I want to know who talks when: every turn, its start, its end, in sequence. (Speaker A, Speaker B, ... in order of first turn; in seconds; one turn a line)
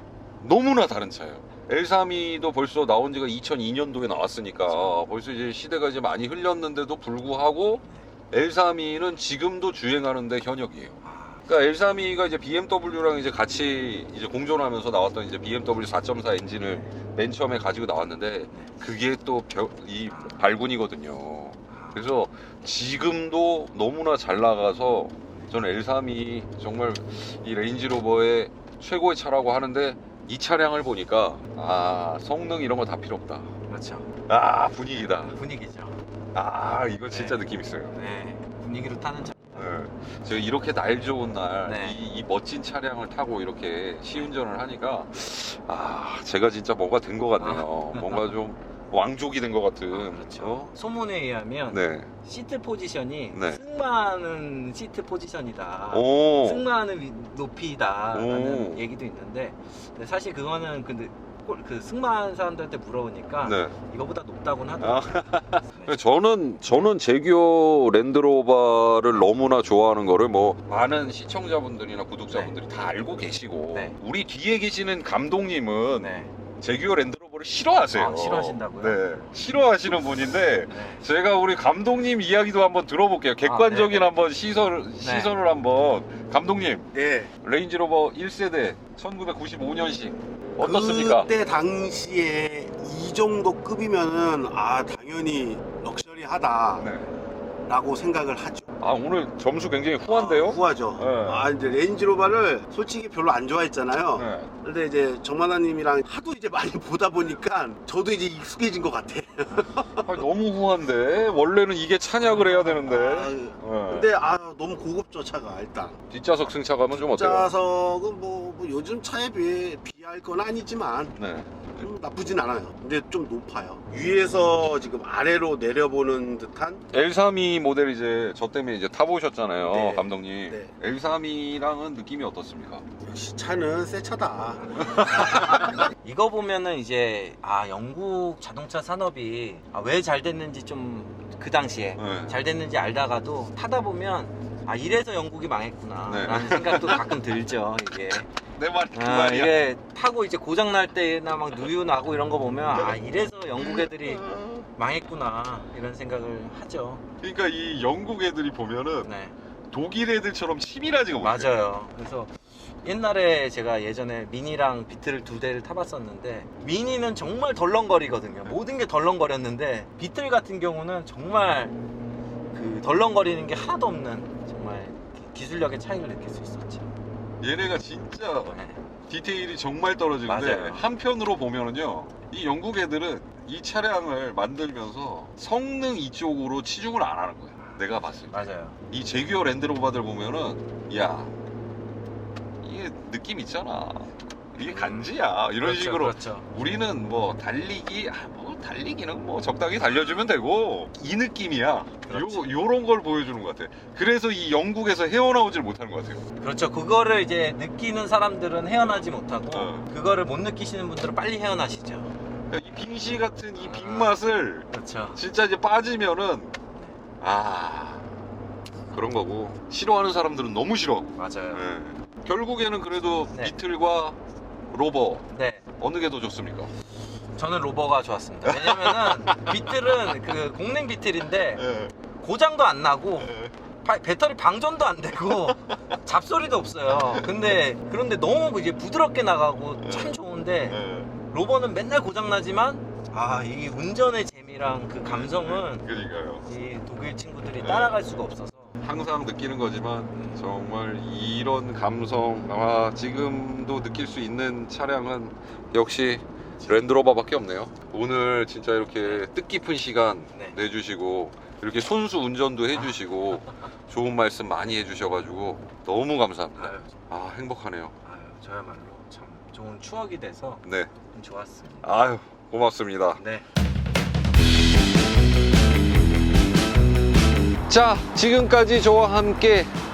Speaker A: 0.4-33.5
Speaker B: 11.0-11.4
Speaker B: 16.6-16.9
Speaker B: 20.1-20.5
Speaker B: 21.7-22.1
Speaker B: 33.7-34.1
Speaker A: 34.3-35.4
Speaker B: 35.3-36.0
Speaker A: 36.3-37.9
Speaker B: 37.1-39.7
Speaker A: 39.5-50.7
Speaker B: 41.6-42.0
Speaker B: 47.4-48.3
Speaker B: 49.9-66.0
Speaker A: 51.7-52.1
Speaker A: 53.3-53.6
Speaker A: 55.9-56.6
Speaker A: 58.1-58.8
Speaker A: 63.4-63.7
Speaker A: 64.8-86.9
Speaker B: 72.3-72.5
Speaker B: 76.0-76.3
Speaker B: 77.9-79.3
Speaker B: 80.7-81.0
Speaker B: 83.4-84.1
Speaker B: 85.0-85.3
Speaker C: 86.9-87.3
Speaker A: 87.4-91.3
Speaker C: 90.6-96.9
Speaker A: 96.8-97.1
Speaker C: 97.7-98.7
Speaker A: 98.8-101.5
Speaker C: 100.1-110.1
Speaker A: 104.1-104.5
Speaker A: 110.0-114.1
Speaker C: 112.8-116.0
Speaker A: 116.1-117.5
Speaker C: 116.9-121.2
Speaker A: 121.2-121.5
Speaker C: 121.7-126.8
Speaker A: 126.9-132.8
Speaker C: 129.7-130.7
Speaker C: 133.0-135.6
Speaker B: 135.2-148.3
Speaker A: 135.2-135.5
Speaker A: 142.0-142.4
Speaker A: 146.1-147.1
Speaker A: 148.6-149.6
Speaker B: 148.9-154.2
Speaker A: 153.6-154.7
Speaker B: 154.8-157.0
Speaker A: 157.2-159.1
Speaker B: 159.0-159.3
Speaker A: 159.7-161.5
Speaker B: 161.2-171.8
Speaker B: 172.5-176.9
Speaker A: 177.4-178.6
Speaker B: 178.5-178.8
Speaker A: 179.1-191.3
Speaker B: 180.2-180.9
Speaker B: 187.6-188.8
Speaker A: 192.6-206.2
Speaker B: 194.6-196.5
Speaker B: 202.1-202.5
Speaker B: 206.4-212.1
Speaker A: 209.5-209.9
Speaker A: 212.5-216.5
Speaker B: 213.6-214.1
Speaker B: 214.7-215.2
Speaker A: 217.2-218.0
Speaker A: 218.9-224.2
Speaker B: 221.2-221.6
Speaker B: 223.3-223.6
Speaker A: 224.7-226.7
Speaker B: 225.3-225.7
Speaker B: 227.4-231.7
Speaker A: 228.5-229.7
Speaker A: 231.6-231.9
Speaker B: 232.2-245.9
Speaker A: 239.8-240.1
Speaker A: 240.7-241.1
Speaker A: 245.0-246.4
Speaker B: 246.4-248.8
Speaker A: 247.6-248.0
Speaker A: 248.8-267.9
Speaker B: 266.6-267.0
Speaker B: 268.0-271.9
Speaker A: 271.8-273.2
Speaker B: 273.2-273.5
Speaker A: 277.7-279.7